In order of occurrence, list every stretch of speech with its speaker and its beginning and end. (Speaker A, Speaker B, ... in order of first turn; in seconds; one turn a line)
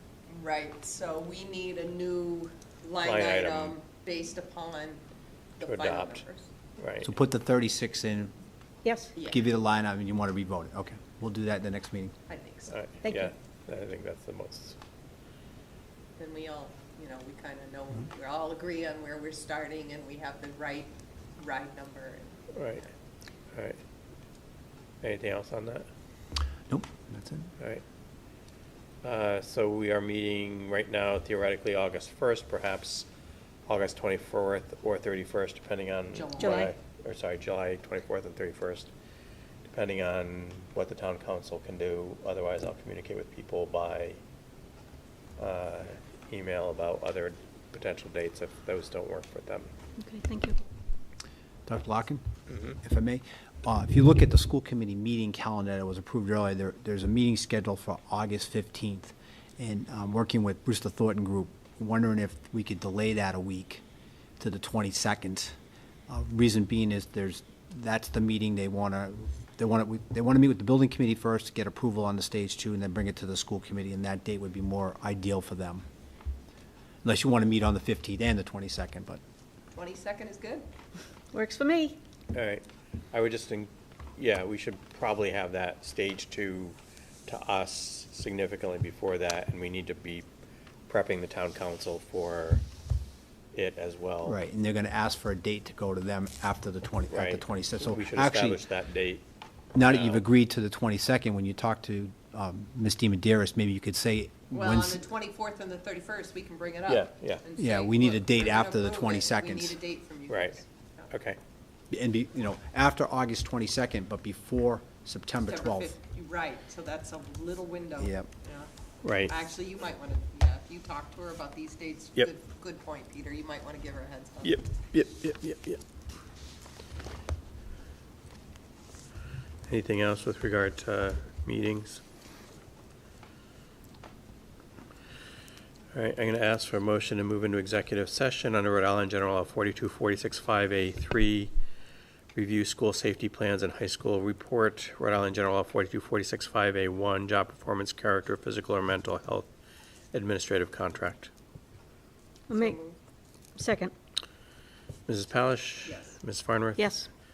Speaker A: 0.3-5.0
Speaker B: 3.0-3.7
Speaker A: 5.6-6.5
Speaker B: 5.6-6.2
Speaker B: 6.8-7.1
Speaker C: 7.0-8.3
Speaker D: 8.8-9.1
Speaker A: 9.1-9.4
Speaker C: 9.3-12.1
Speaker A: 12.3-12.8
Speaker B: 12.7-14.8
Speaker D: 13.0-13.3
Speaker A: 16.2-22.5
Speaker B: 22.5-22.8
Speaker B: 23.5-23.8
Speaker B: 25.0-25.9
Speaker C: 26.7-27.5
Speaker B: 27.6-27.8
Speaker B: 29.0-33.1
Speaker B: 33.7-38.9
Speaker A: 36.1-36.7
Speaker D: 36.4-36.7
Speaker B: 39.7-44.2
Speaker B: 45.4-49.7
Speaker D: 50.0-50.6
Speaker C: 51.6-63.8
Speaker B: 52.5-52.8
Speaker C: 64.4-65.5
Speaker C: 66.1-75.8
Speaker C: 77.0-79.2
Speaker A: 79.7-80.7
Speaker D: 81.3-82.0
Speaker B: 82.3-90.2
Speaker B: 90.9-92.6
Speaker B: 93.5-94.4
Speaker C: 94.2-98.6
Speaker B: 97.1-99.2
Speaker C: 99.7-105.0
Speaker B: 99.8-100.2
Speaker A: 104.5-111.1
Speaker B: 106.9-107.4
Speaker C: 107.6-109.8
Speaker B: 110.3-111.4
Speaker C: 111.9-115.9
Speaker A: 115.5-118.7
Speaker C: 118.0-118.3
Speaker B: 119.0-119.3
Speaker A: 119.3-124.6
Speaker B: 124.4-125.8
Speaker B: 129.7-132.0
Speaker B: 135.9-141.5
Speaker B: 142.3-149.5
Speaker B: 150.1-151.3
Speaker D: 152.5-152.8
Speaker A: 152.5-152.9
Speaker D: 153.6-153.9
Speaker B: 155.1-157.0
Speaker A: 155.8-156.2
Speaker D: 156.8-157.1